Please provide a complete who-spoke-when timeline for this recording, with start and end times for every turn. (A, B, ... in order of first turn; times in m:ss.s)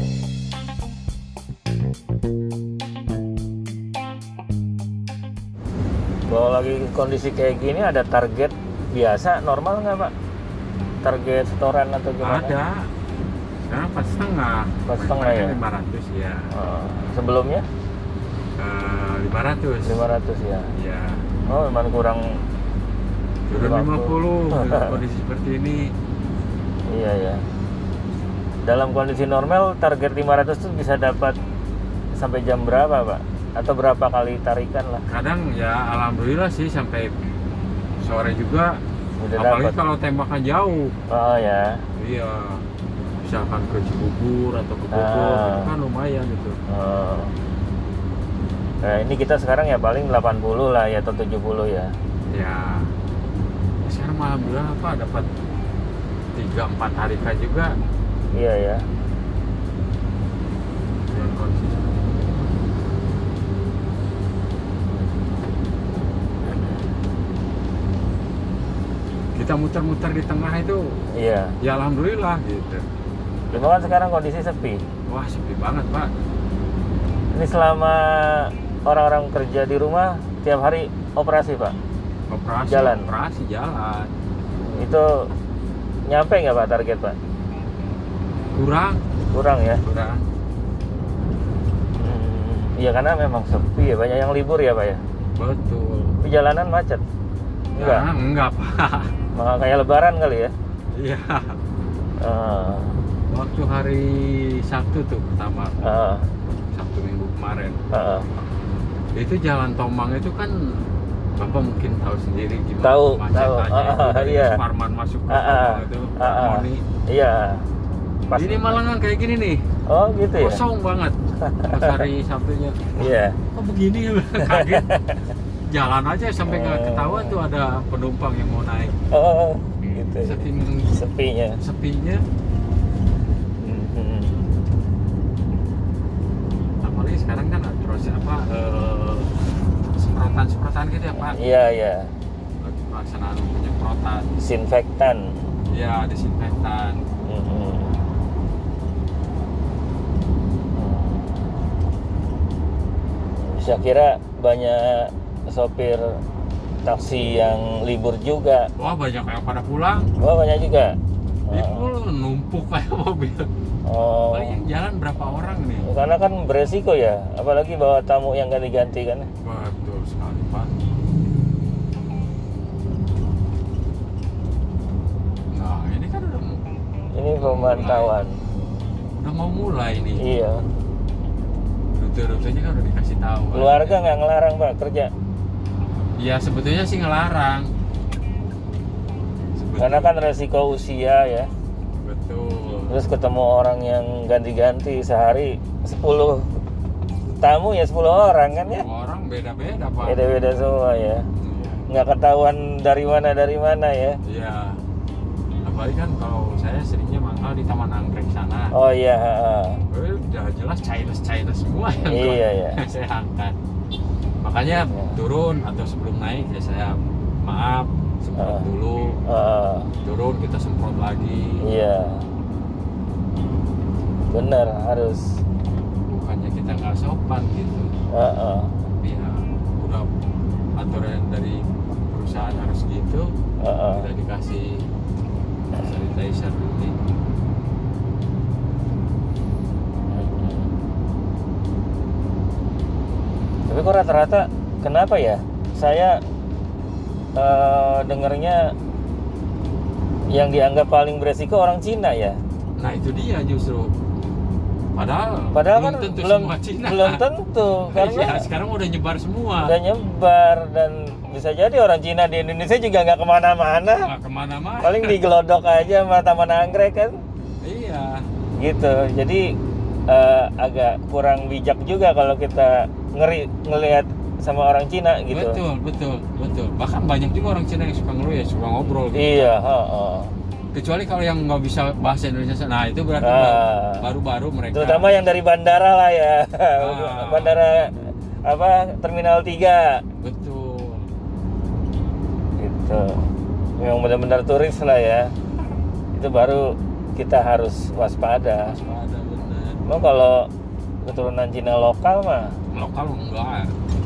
0:06.3-0:10.1 A
0:11.0-0:12.5 A
0:12.2-0:12.9 B
0:13.7-0:16.5 B
0:14.9-0:15.6 A
0:16.5-0:17.7 A
0:18.6-0:20.0 B
0:19.8-0:20.7 A
0:20.8-0:21.2 B
0:21.5-0:22.2 A
0:23.5-0:25.9 B
0:23.6-0:25.0 A
0:26.9-0:27.4 A
0:28.6-0:31.4 A
0:32.2-0:35.0 A
0:35.1-0:37.2 B
0:38.0-0:38.8 B
0:39.2-0:39.8 A
0:39.4-0:40.9 B
0:41.1-0:41.8 A
0:42.0-0:42.7 B
0:43.2-0:46.6 B
0:44.9-0:45.7 A
0:46.7-0:47.3 A
0:48.8-0:51.9 A
0:52.3-0:52.9 B
0:53.8-0:55.3 B
0:56.4-0:57.7 B
0:58.4-0:58.8 A
1:01.1-1:02.5 B
1:09.4-1:11.0 B
1:11.2-1:11.6 A
1:11.6-1:12.9 B
1:13.5-1:13.9 B
1:13.5-1:14.8 A
1:15.1-1:16.1 B
1:17.3-1:21.8 A
1:22.3-1:24.1 B
1:22.7-1:23.1 A
1:24.7-1:25.3 A
1:26.1-1:27.2 A
1:28.5-1:29.1 B
1:29.3-1:29.8 A
1:29.8-1:30.3 B
1:32.0-1:35.0 A
1:35.4-1:36.2 B
1:36.2-1:37.0 A
1:37.8-1:38.1 A
1:37.8-1:39.1 B
1:39.4-1:40.5 A
1:41.0-1:41.6 B
1:42.2-1:43.0 A
1:43.3-1:46.0 B
1:45.8-1:46.3 A
1:46.7-1:47.8 B
1:47.9-1:48.3 A
1:49.2-1:50.8 B
1:51.4-1:56.8 B
1:52.8-1:54.6 A
1:55.3-1:57.7 A
1:58.3-1:58.8 A
1:58.3-1:59.7 B
1:59.9-2:00.6 A
2:00.4-2:04.9 B
2:01.4-2:02.0 A
2:03.0-2:03.4 A
2:04.5-2:05.2 A
2:05.7-2:09.0 B
2:06.5-2:07.4 A
2:09.1-2:11.6 A
2:10.2-2:11.0 B
2:11.6-2:12.2 B
2:13.6-2:14.4 A
2:16.8-2:19.3 B
2:20.0-2:21.4 B
2:21.2-2:22.1 A
2:22.6-2:24.3 B
2:24.4-2:25.4 A
2:25.7-2:27.0 B
2:27.2-2:28.0 A
2:30.8-2:31.4 A
2:33.4-2:36.2 A
2:36.8-2:38.7 A
2:38.8-2:40.1 B
2:40.2-2:41.0 A
2:41.5-2:41.9 A
2:41.5-2:43.5 B
2:43.9-2:44.6 A
2:44.3-2:45.9 B
2:45.8-2:49.3 A
2:49.4-2:50.8 B
2:55.5-2:56.6 B
2:57.1-2:58.4 A
2:57.4-2:58.2 B
2:59.2-3:00.2 B
3:00.2-3:00.6 A
3:01.9-3:04.1 B
3:03.5-3:05.1 A
3:06.2-3:07.7 B
3:09.6-3:10.2 B
3:09.8-3:11.5 A
3:12.0-3:13.0 B
3:12.9-3:16.5 A
3:17.4-3:18.9 A
3:18.6-3:20.2 B
3:20.0-3:21.3 A
3:21.4-3:21.8 B
3:21.9-3:24.2 A
3:24.3-3:24.8 B
3:25.6-3:28.7 B
3:28.7-3:29.8 A
3:29.9-3:33.6 B
3:32.0-3:32.8 A
3:34.4-3:39.2 B
3:34.8-3:35.2 A
3:38.4-3:38.7 A
3:39.3-3:39.9 A
3:40.0-3:41.6 B
3:41.6-3:42.3 A
3:44.3-3:45.4 A
3:46.1-3:47.9 B
3:48.1-3:48.7 A
3:49.0-3:50.1 B
3:50.8-3:53.3 B
3:53.6-3:54.1 A
3:53.9-3:54.8 B
3:55.7-3:57.0 B
4:00.1-4:00.7 A
4:03.7-4:06.2 A
4:07.4-4:08.7 A
4:10.3-4:12.4 A
4:12.8-4:13.9 B
4:14.9-4:17.2 B
4:15.5-4:18.5 A
4:17.9-4:19.7 B
4:19.6-4:24.1 A
4:24.0-4:25.2 B
4:24.8-4:27.2 A
4:27.6-4:28.3 B
4:28.6-4:29.6 A
4:30.1-4:35.6 A
4:35.3-4:39.5 B
4:39.1-4:40.3 A
4:40.7-4:45.1 B
4:43.2-4:44.1 A
4:44.7-4:50.0 A
4:46.8-4:47.6 B
4:50.2-4:51.1 B
4:52.6-4:55.3 A
4:56.1-4:58.8 A
4:58.7-4:59.9 B
4:59.8-5:00.5 A
5:01.0-5:02.6 A
5:02.7-5:03.7 B